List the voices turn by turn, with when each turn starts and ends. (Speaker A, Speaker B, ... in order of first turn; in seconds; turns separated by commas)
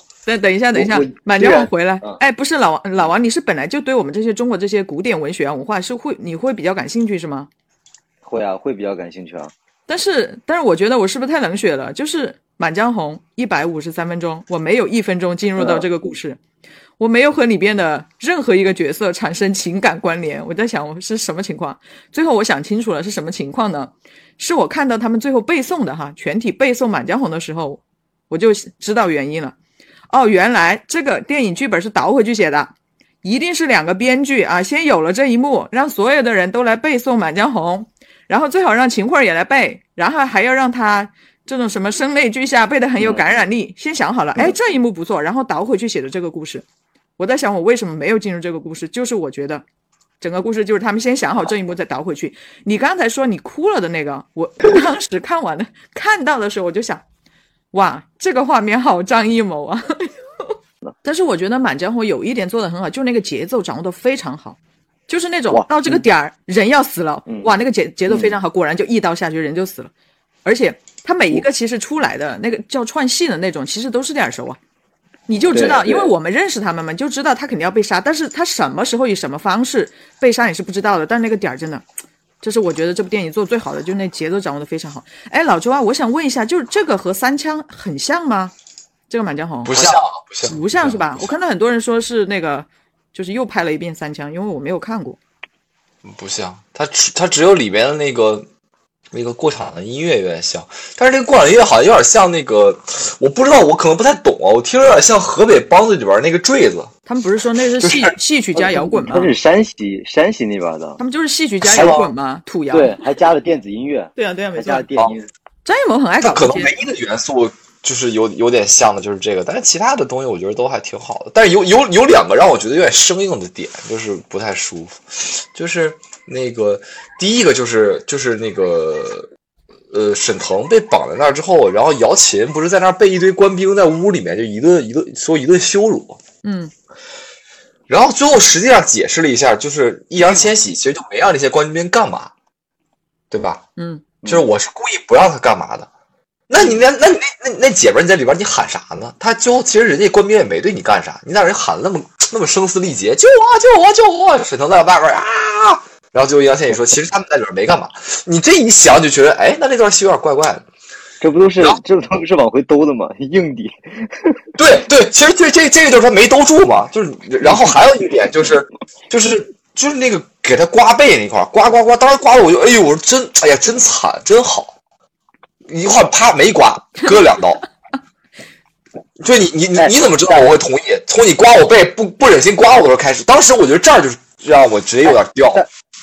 Speaker A: 0.2-7.5, Speaker B: 0.8-2.2, Speaker B: 8.2-9.5, Speaker A: 9.9-16.4, Speaker B: 15.6-15.8, Speaker A: 17.0-29.6, Speaker A: 30.1-32.7, Speaker A: 33.2-46.6, Speaker B: 43.0-43.2, Speaker A: 47.2-49.6, Speaker A: 50.2-57.0, Speaker A: 57.7-60.5, Speaker A: 61.0-69.9, Speaker B: 65.5-66.0, Speaker B: 67.3-67.5, Speaker B: 68.1-68.4, Speaker A: 70.5-74.6, Speaker A: 75.3-81.8, Speaker B: 75.5-76.1, Speaker A: 82.4-88.5, Speaker A: 89.1-95.2, Speaker C: 89.6-91.2, Speaker C: 96.0-98.5, Speaker C: 99.1-106.9, Speaker A: 107.1-109.3, Speaker C: 107.8-108.1, Speaker B: 108.5-111.0, Speaker A: 111.0-112.9, Speaker C: 111.6-112.1, Speaker B: 112.7-115.3, Speaker A: 114.2-114.9, Speaker A: 115.6-116.7, Speaker C: 116.2-129.3, Speaker C: 129.9-136.2, Speaker A: 136.4-136.7, Speaker C: 137.9-142.3, Speaker C: 143.3-143.6, Speaker A: 143.8-144.0, Speaker C: 144.3-145.9, Speaker C: 146.5-160.7, Speaker B: 161.2-164.4, Speaker C: 164.6-174.8, Speaker C: 175.7-177.6, Speaker C: 179.2-185.6, Speaker B: 179.8-180.4, Speaker B: 185.1-185.7